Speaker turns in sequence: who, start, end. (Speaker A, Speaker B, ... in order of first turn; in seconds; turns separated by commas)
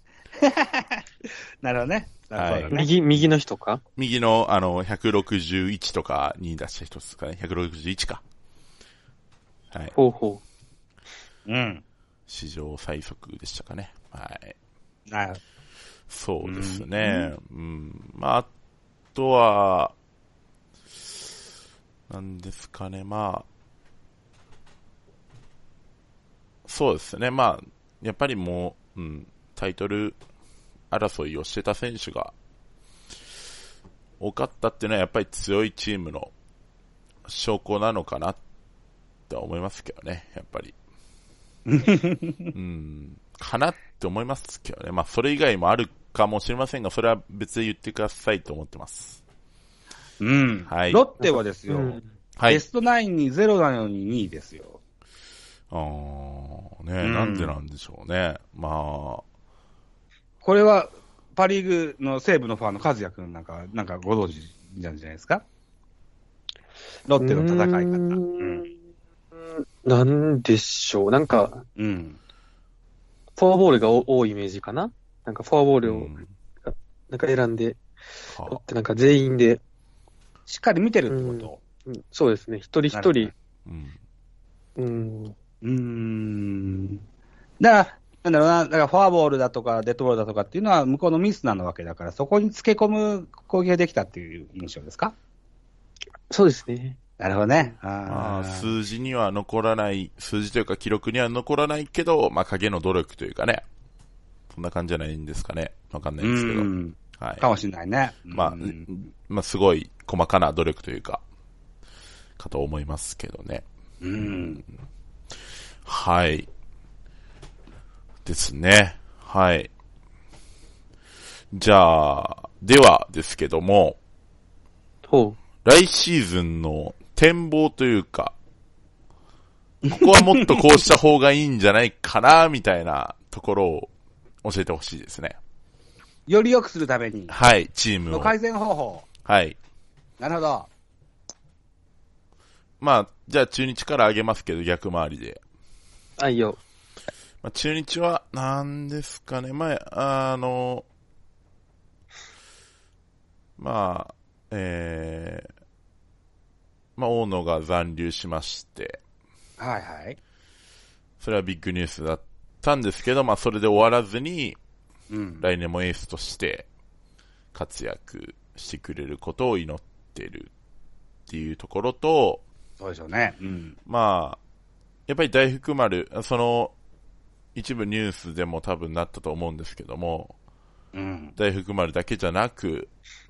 Speaker A: 0.4-2.9, Speaker B: 2.4-3.2, Speaker C: 2.7-3.8, Speaker B: 4.0-8.2, Speaker C: 9.9-10.4, Speaker A: 11.4-11.8, Speaker B: 12.3-14.6, Speaker A: 15.1-15.4, Speaker B: 16.1-18.5, Speaker A: 16.4-17.1, Speaker B: 19.1-19.9, Speaker B: 22.1-23.4, Speaker B: 26.7-30.2, Speaker B: 30.9-32.3, Speaker B: 34.2-36.3, Speaker B: 37.3-38.4, Speaker B: 39.3-40.7, Speaker A: 41.6-42.5, Speaker B: 42.5-49.2, Speaker A: 50.2-54.8, Speaker B: 50.7-51.0, Speaker C: 51.2-52.1, Speaker B: 52.4-52.6, Speaker B: 55.7-59.2, Speaker A: 57.0-57.5, Speaker A: 60.4-65.4, Speaker A: 67.1-68.7, Speaker C: 67.2-68.7, Speaker C: 69.4-71.6, Speaker A: 71.8-72.2, Speaker C: 73.3-77.8, Speaker B: 75.8-76.3, Speaker B: 78.3-78.6, Speaker C: 78.5-79.6, Speaker A: 80.5-81.6, Speaker C: 81.1-83.3, Speaker A: 82.9-83.3, Speaker B: 83.7-84.0, Speaker C: 84.8-85.3, Speaker A: 85.6-87.0, Speaker A: 87.6-95.1, Speaker C: 96.3-97.0, Speaker A: 97.2-98.7, Speaker B: 98.0-103.6, Speaker B: 104.5-107.5, Speaker A: 106.2-108.8, Speaker B: 108.3-111.2, Speaker B: 112.4-113.7, Speaker A: 114.0-114.6, Speaker B: 114.2-114.6, Speaker B: 115.8-116.5, Speaker B: 118.2-119.7, Speaker B: 121.5-124.0, Speaker C: 125.1-125.4, Speaker B: 125.6-128.3, Speaker A: 129.8-130.6, Speaker B: 129.9-133.9, Speaker B: 134.4-135.4, Speaker A: 136.3-137.3, Speaker B: 137.3-138.3, Speaker A: 138.1-139.1, Speaker B: 139.2-139.6, Speaker A: 140.2-140.7, Speaker B: 142.8-145.4, Speaker C: 146.2-146.6, Speaker B: 147.4-150.8, Speaker B: 153.6-155.5, Speaker B: 157.0-159.0, Speaker A: 159.6-160.2, Speaker B: 161.2-164.6, Speaker A: 165.1-165.4, Speaker B: 165.4-166.7, Speaker B: 167.5-170.5, Speaker B: 171.3-172.4, Speaker A: 172.8-173.8, Speaker B: 173.9-174.4, Speaker B: 175.1-176.7, Speaker B: 177.6-180.3, Speaker A: 180.9-181.3, Speaker B: 181.4-182.9